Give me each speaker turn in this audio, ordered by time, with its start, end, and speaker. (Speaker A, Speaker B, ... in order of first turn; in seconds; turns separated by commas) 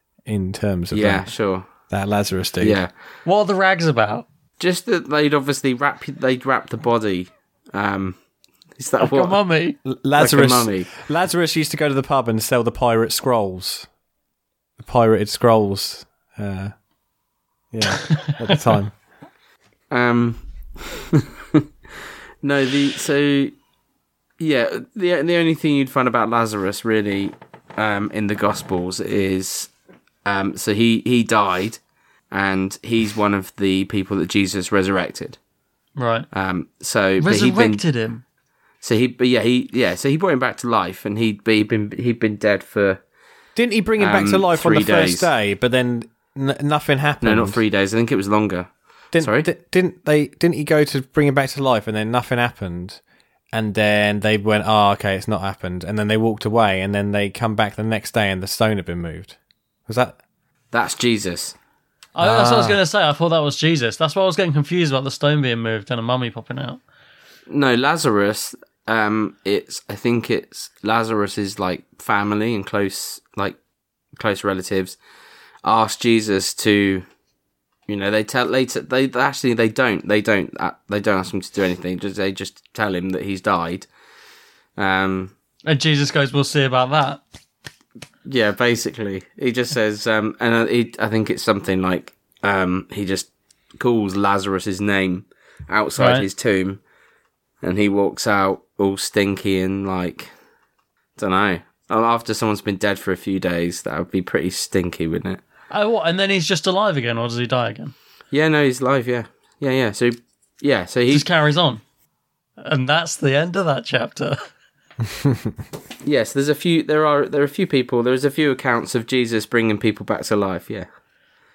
Speaker A: 0.3-1.3, Speaker B: 0.9-1.7, Speaker A: 1.9-2.8, Speaker B: 2.6-2.9, Speaker C: 3.2-4.3, Speaker B: 4.6-8.2, Speaker B: 8.8-9.4, Speaker C: 9.0-9.8, Speaker A: 9.9-13.9, Speaker B: 10.2-10.9, Speaker A: 14.8-16.7, Speaker A: 17.7-18.9, Speaker C: 17.9-18.6, Speaker B: 19.9-21.6, Speaker B: 22.4-23.5, Speaker B: 24.4-29.7, Speaker B: 30.2-31.8, Speaker B: 32.3-35.4, Speaker C: 36.0-36.3, Speaker B: 36.3-37.8, Speaker C: 37.2-38.2, Speaker B: 38.8-43.0, Speaker A: 43.6-47.6, Speaker B: 44.0-45.3, Speaker B: 47.2-49.5, Speaker A: 49.1-53.0, Speaker A: 53.5-59.4, Speaker A: 59.9-60.2, Speaker B: 60.7-61.5, Speaker C: 62.1-66.8, Speaker A: 62.2-62.8, Speaker B: 67.5-73.6, Speaker B: 74.2-75.0, Speaker B: 75.6-77.0, Speaker B: 77.9-83.9, Speaker B: 84.8-85.3, Speaker C: 85.7-87.2, Speaker B: 88.3-96.8, Speaker C: 96.0-96.3, Speaker B: 97.6-100.3, Speaker B: 101.2-105.4, Speaker C: 105.7-107.9, Speaker B: 108.3-111.3, Speaker C: 111.1-111.8, Speaker C: 112.6-114.4, Speaker A: 115.2-115.5, Speaker B: 116.0-120.9